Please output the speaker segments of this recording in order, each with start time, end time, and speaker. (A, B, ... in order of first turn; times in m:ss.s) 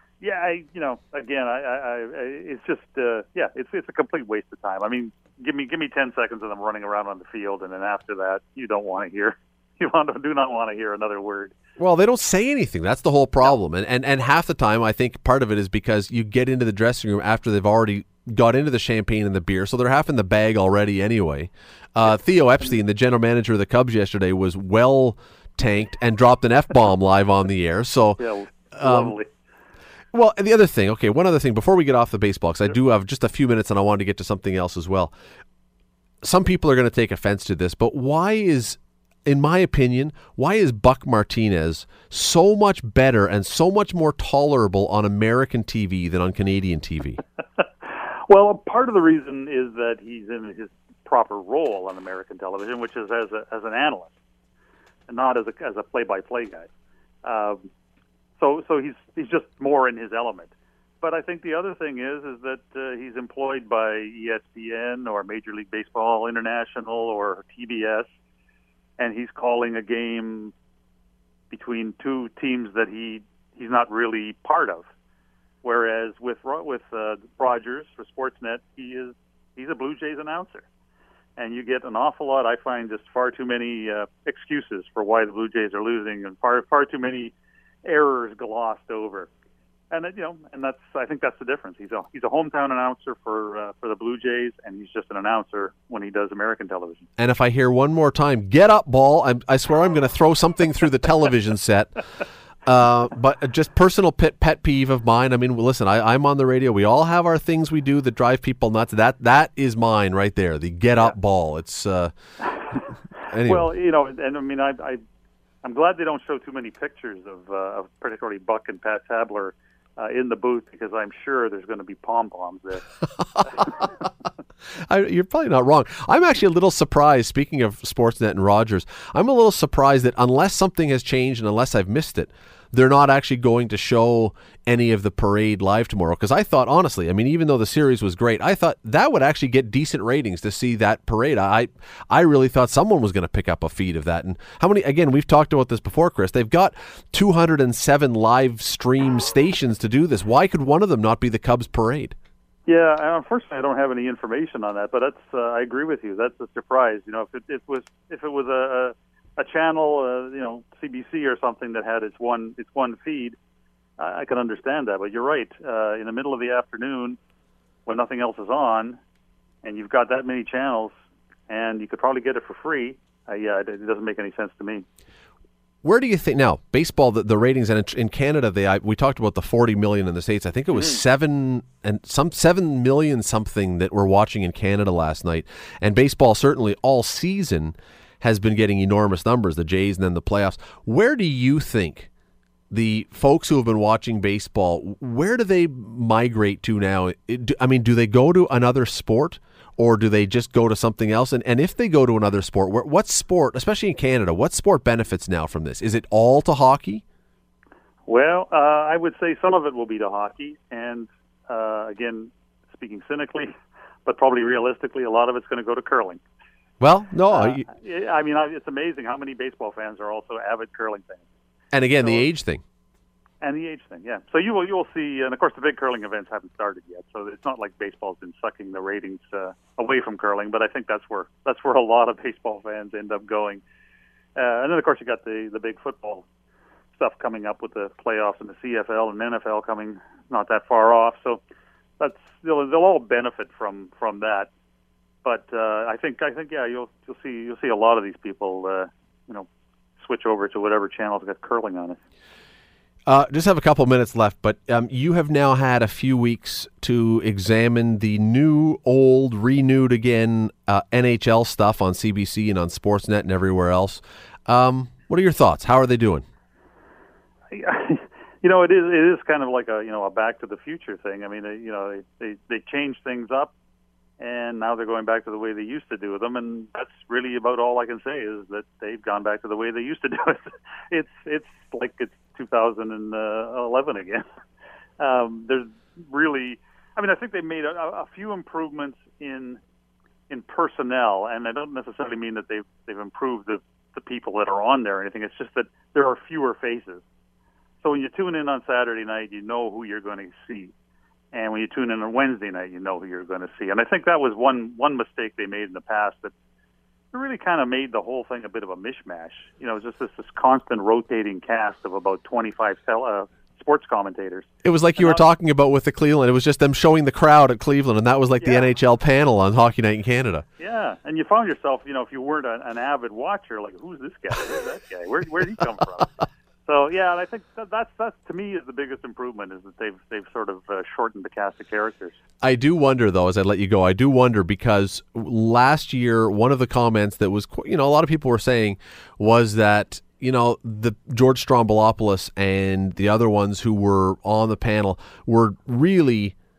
0:00.2-0:11.5 A
0:11.8-0:28.2 B
0:28.2-0:29.3 A
0:28.8-0:29.1 B
0:30.1-0:35.1 B
0:36.2-0:47.2 B
0:48.3-0:54.1 A
0:55.1-0:56.7 A
0:57.2-0:57.6 A
0:58.4-1:08.1 A
1:09.0-1:10.5 A
1:11.5-1:14.8 A
1:15.6-1:20.6 A
1:21.4-1:27.3 A
1:27.8-1:29.3 A
1:29.9-1:37.0 A
1:37.2-1:42.0 B
1:42.6-1:52.1 B
1:52.4-1:52.9 A
1:53.3-1:53.7 B
1:53.4-1:55.0 A
1:55.6-2:02.8 A
2:03.4-2:03.6 B
2:03.4-2:03.8 A
2:04.7-2:32.1 B
2:32.7-2:43.4 A
2:44.0-2:47.2 A
2:47.8-2:49.0 A
2:49.6-2:50.9 A
2:51.5-2:54.8 A
2:55.8-3:12.1 B
3:12.7-3:27.0 B
3:28.1-3:33.5 A
3:34.0-3:36.2 A
3:36.8-3:37.6 B
3:37.3-3:41.2 A
3:41.7-3:42.6 B
3:42.0-3:42.2 A
3:43.4-3:53.6 A
3:54.4-3:56.2 A
3:56.9-4:01.4 A
4:02.0-4:04.5 A
4:05.2-4:12.0 A
4:13.1-4:26.2 B
4:27.5-4:33.5 A
4:34.2-4:44.2 A
4:45.0-4:49.6 A
4:50.3-4:57.0 A
4:57.8-5:00.7 A
5:01.3-5:06.3 A
5:07.1-5:15.2 A
5:14.6-5:20.4 B
5:20.6-5:32.1 A
5:32.4-5:46.3 B